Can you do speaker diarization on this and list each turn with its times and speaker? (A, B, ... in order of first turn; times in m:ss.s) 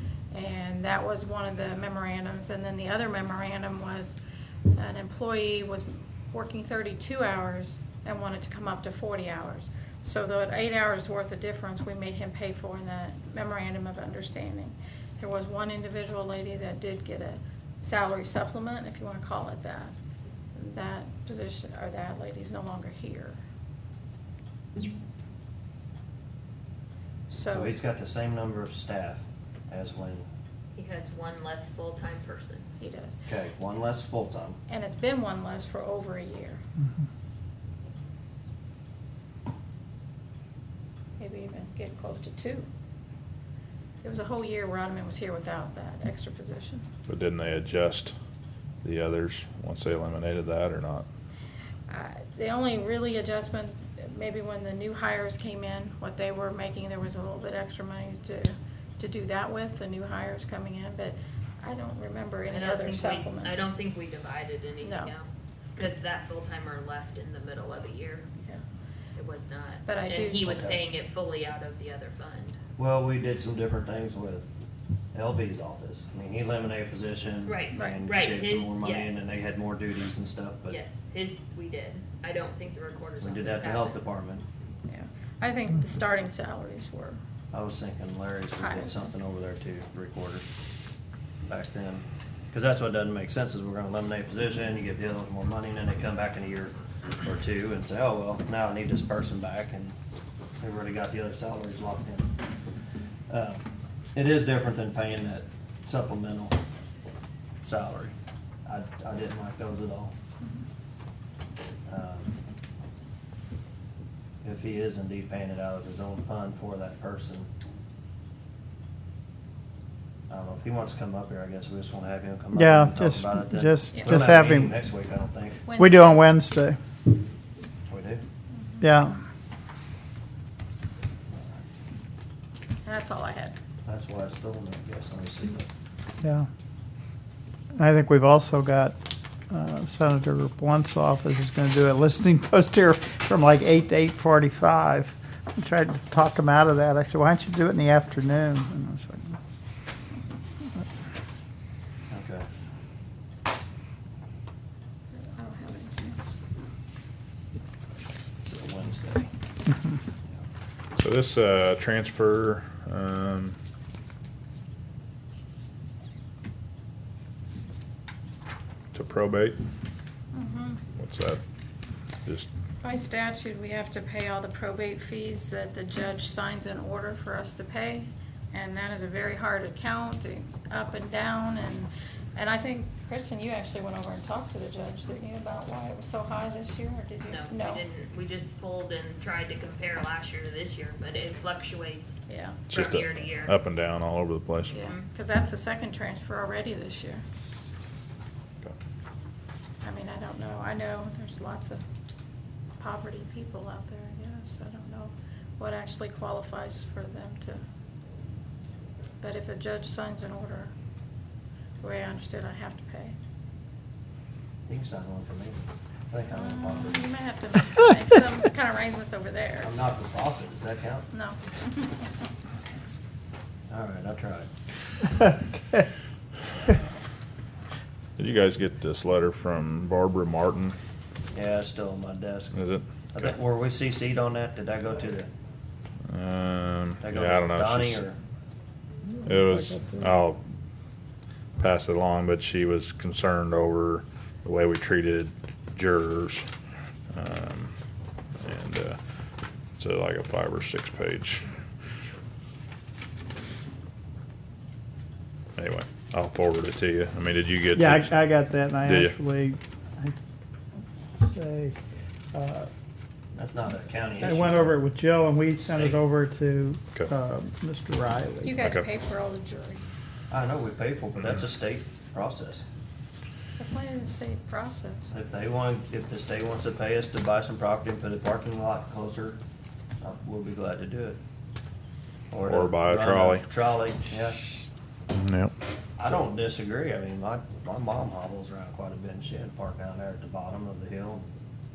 0:00.3-0:04.2 A
0:04.7-0:19.9 A
0:20.5-0:23.4 A
0:27.3-0:27.8 A
0:27.5-0:30.2 B
0:30.8-0:32.7 C
0:32.8-0:33.2 A
0:33.2-0:34.6 B
0:34.7-0:36.6 A
0:41.2-0:42.7 A
0:44.0-0:46.8 A
0:47.1-0:48.1 D
0:48.8-0:51.0 D
0:51.9-1:03.7 A
1:02.5-1:08.3 C
1:04.8-1:05.1 A
1:09.2-1:12.6 C
1:09.8-1:10.6 A
1:10.4-1:10.8 B
1:12.8-1:14.4 B
1:15.1-1:20.8 B
1:17.4-1:19.2 C
1:17.7-1:18.0 A
1:20.7-1:24.0 C
1:23.2-1:24.4 B
1:24.9-1:27.2 A
1:27.5-1:30.4 B
1:28.6-1:29.0 A
1:31.5-1:40.0 B
1:40.6-1:42.3 B
1:43.3-1:43.6 B
1:44.1-1:46.6 B
1:47.6-1:48.1 B
1:48.6-1:50.1 B
1:51.9-1:52.3 B
1:54.4-1:57.5 B
2:00.3-2:05.6 B
2:02.5-2:04.8 E
2:05.6-2:06.3 A
2:05.8-2:06.8 E
2:07.9-2:08.2 B
2:08.8-2:09.2 E
2:12.8-2:13.6 A
2:13.8-2:15.7 B
2:16.2-2:16.5 E
2:17.8-2:19.0 E
2:19.5-2:29.4 E
2:32.1-2:32.4 B
2:35.1-2:36.3 A
2:38.4-2:39.3 B
2:41.0-2:43.6 D
2:48.9-2:49.6 D
2:50.3-2:50.8 A
2:50.9-2:51.4 D
2:52.8-3:07.8 A
3:07.3-3:13.6 C
3:12.3-3:12.6 A
3:12.7-3:14.8 D
3:14.7-3:17.2 A
3:14.7-3:15.0 C
3:19.8-3:21.8 A
3:22.8-3:27.6 A
3:29.2-3:30.7 A
3:31.8-3:33.2 A
3:34.7-3:37.1 B
3:36.3-3:39.8 A
3:39.6-3:41.1 B
3:41.1-3:42.1 A
3:43.7-3:44.5 B
3:45.2-3:45.8 E
3:48.2-3:50.8 D
3:51.3-3:52.6 B
3:52.5-3:53.3 D
3:53.1-3:55.3 B
3:56.1-3:58.0 D
3:57.0-3:58.2 B
3:59.2-4:00.1 E
3:59.2-4:00.4 D
4:01.6-4:06.5 D
4:07.1-4:07.7 D
4:08.4-4:09.0 D
4:09.8-4:11.4 D
4:15.6-4:18.2 D
4:17.7-4:20.1 E
4:18.8-4:19.2 D
4:21.2-4:21.8 E
4:22.3-4:22.7 E
4:23.3-4:24.8 B
4:24.2-4:28.6 E
4:25.6-4:26.0 B
4:28.4-4:29.8 A
4:28.6-4:28.8 D
4:30.3-4:32.6 B
4:33.6-4:35.1 A
4:35.1-4:39.4 B
4:40.0-4:41.2 B
4:42.3-4:44.4 B
4:42.4-4:43.5 D
4:45.1-4:45.5 D
4:46.0-4:51.2 B